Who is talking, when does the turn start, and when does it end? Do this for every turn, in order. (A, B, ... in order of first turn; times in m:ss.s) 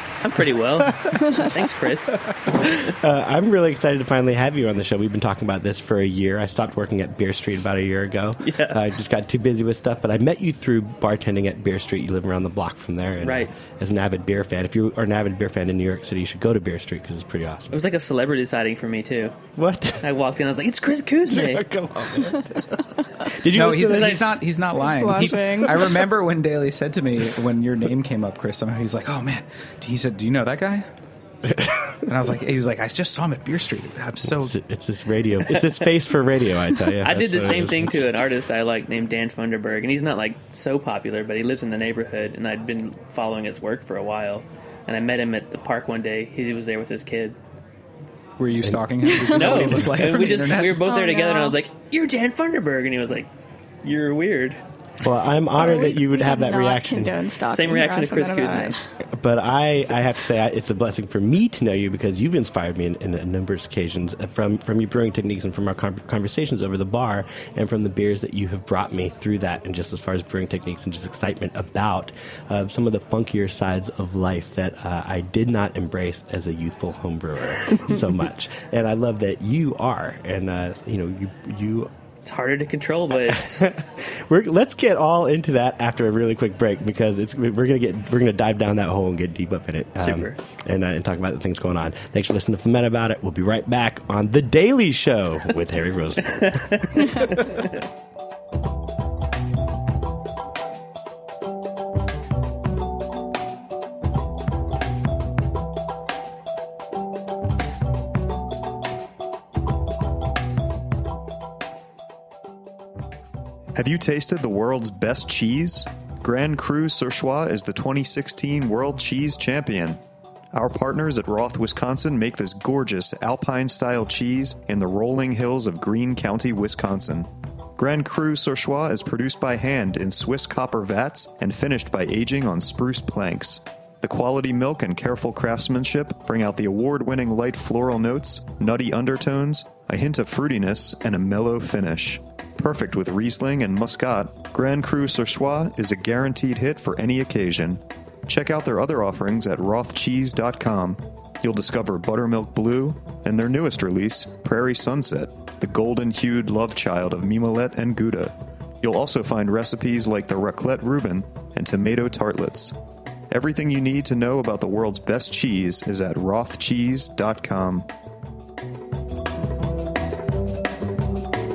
0:00.2-0:02.2 A
0:00.8-0:01.6 B
0:02.1-0:17.8 B
0:08.4-0:08.8 A
0:13.2-0:13.5 A
0:17.7-0:19.4 A
0:19.6-0:20.1 B
0:20.0-0:21.7 A
0:21.3-0:24.4 B
0:23.4-0:30.9 C
0:24.8-0:26.0 D
0:25.1-0:25.9 B
0:31.5-0:32.0 B
0:32.1-0:34.6 C
0:34.2-0:38.1 B
0:37.0-0:47.4 A
0:48.4-0:50.8 C
0:49.2-0:53.3 A
0:49.4-0:49.8 B
0:50.8-0:51.6 D
0:53.8-0:54.6 A
0:55.0-0:57.2 B
0:55.5-0:58.8 D
0:57.5-0:58.8 A
0:59.1-1:21.9 B
1:22.2-1:23.7 A
1:23.3-1:37.6 B
1:30.0-1:30.4 A
1:36.7-1:37.6 A
1:53.8-2:00.0 E
2:00.5-2:42.7 E
2:43.3-2:47.9 E